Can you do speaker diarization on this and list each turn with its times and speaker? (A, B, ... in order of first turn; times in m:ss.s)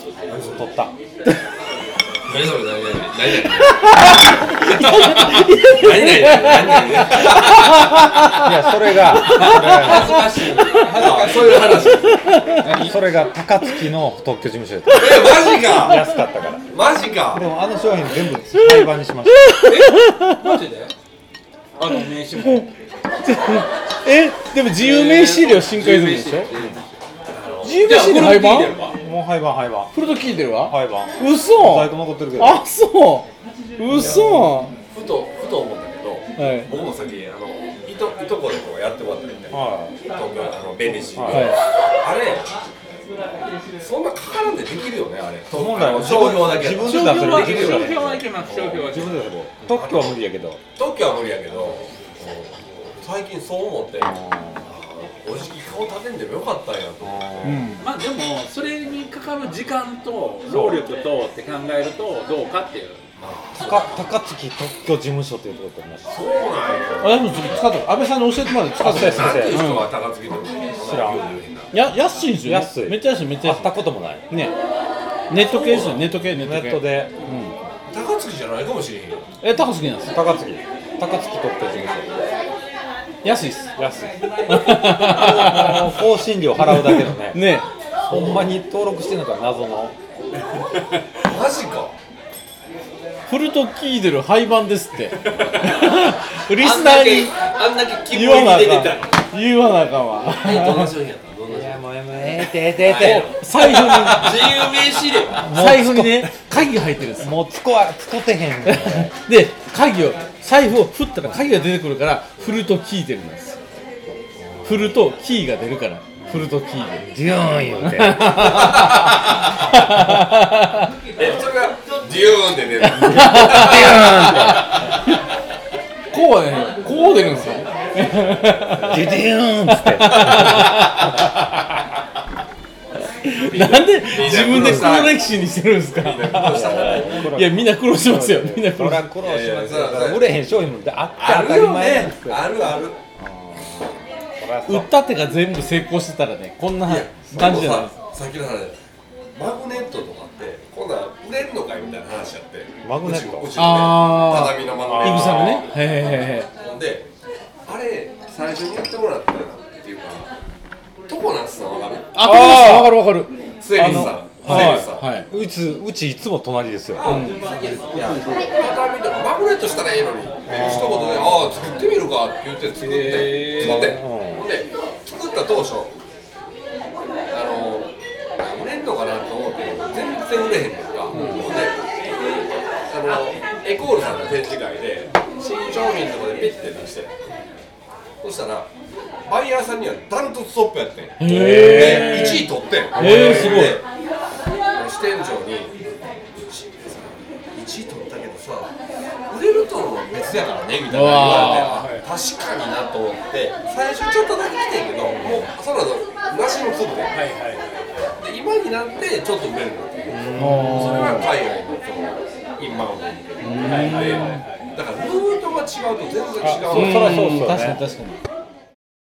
0:00.2-0:00.7 A
0:00.3-0:00.9 B
0:02.2-0:08.4 A
0:03.9-0:08.4 C
0:08.4-0:10.4 B
0:09.2-0:12.0 D
0:09.4-0:12.9 C
0:10.7-0:12.4 A
0:12.6-0:12.9 D
0:12.7-0:16.7 B
0:14.9-0:16.1 A
0:16.7-0:17.5 A
0:17.2-0:19.6 B
0:18.6-0:20.6 C
0:19.6-0:20.9 D
0:21.8-0:22.7 D
0:22.3-0:26.5 C
0:24.8-0:27.0 D
0:27.3-0:27.9 A
0:27.6-0:28.8 C
0:27.8-0:29.0 D
0:29.0-0:29.9 B
0:29.9-0:34.7 C
0:30.5-0:32.6 B
0:34.0-0:34.5 B
0:34.0-0:34.2 A
0:34.9-0:42.5 A
0:36.4-0:36.7 C
0:39.5-0:40.0 B
0:41.1-0:41.5 B
0:41.3-0:41.6 C
0:43.8-0:49.0 A
0:45.5-0:48.2 B
0:46.8-0:49.2 D
0:48.8-0:50.6 B
0:49.6-0:50.2 A
0:50.7-0:57.6 A
0:54.0-0:54.7 B
0:57.0-0:57.7 B
0:57.4-0:57.8 C
0:57.8-1:03.0 D
1:00.5-1:00.8 B
1:03.2-1:04.2 A
1:03.5-1:06.2 B
1:06.1-1:07.6 A
1:07.0-1:09.9 C
1:08.8-1:09.7 B
1:08.8-1:11.7 A
1:10.8-1:11.3 B
1:11.7-1:13.7 C
1:12.4-1:14.2 B
1:14.3-1:14.6 C
1:15.3-1:17.5 C
1:15.4-1:17.2 B
1:15.4-1:16.0 A
1:17.9-1:19.3 A
1:19.4-1:20.2 C
1:20.0-1:22.1 B
1:23.2-1:23.7 C
1:23.8-1:29.9 B
1:24.5-1:26.0 C
1:26.6-1:28.4 C
1:31.2-1:32.0 A
1:33.3-1:37.4 C
1:36.6-1:39.2 A
1:38.1-1:40.9 C
1:40.2-1:41.8 A
1:41.5-1:43.3 B
1:42.7-1:45.5 A
1:43.0-1:44.6 C
1:44.0-1:45.1 D
1:45.4-1:46.4 B
1:45.5-1:47.3 C
1:47.2-1:49.1 B
1:48.6-1:53.6 C
1:54.3-1:54.9 A
1:54.6-1:57.2 C
1:56.2-1:58.8 B
1:57.8-2:00.9 C
1:58.4-1:59.2 A
2:01.2-2:04.8 A
2:03.0-2:04.8 B
2:03.0-2:04.0 C
2:06.1-2:11.2 C
2:08.0-2:09.2 A
2:08.9-2:11.0 B
2:10.1-2:10.9 A
2:13.2-2:19.1 C
2:13.4-2:15.3 A
2:15.9-2:17.3 A
2:16.5-2:22.4 B
2:19.2-2:20.4 A
2:21.2-2:23.0 A
2:23.2-2:24.9 B
2:24.7-2:27.9 C
2:26.8-2:28.8 A
2:29.3-2:37.1 A
2:32.8-2:33.9 B
2:33.6-2:36.5 C
2:34.8-2:35.6 B
2:37.6-2:40.3 A
2:41.1-2:42.1 A
2:42.1-2:45.3 C
2:42.2-2:43.2 B
2:43.6-2:45.1 A
2:43.8-2:47.3 B
2:46.9-2:55.9 A
2:47.0-2:47.4 C
2:50.5-2:51.8 B
2:52.8-2:53.9 C
2:53.5-2:54.5 B
2:57.3-3:01.8 A
3:01.1-3:01.6 B
3:01.1-3:01.4 C
3:02.9-3:07.1 A
3:08.2-3:08.7 A
3:09.2-3:13.8 A
3:11.2-3:13.8 C
3:11.2-3:13.8 B
3:14.7-3:15.8 A
3:16.4-3:18.7 A
3:19.3-3:27.1 A
3:20.9-3:21.7 C
3:21.1-3:22.1 D
3:25.0-3:25.5 B
3:27.1-3:28.0 D
3:28.2-3:37.3 A
3:30.1-3:31.3 B
3:30.3-3:31.3 C
3:33.4-3:34.4 C
3:33.6-3:34.7 D
3:36.4-3:37.8 B
3:36.7-3:38.2 C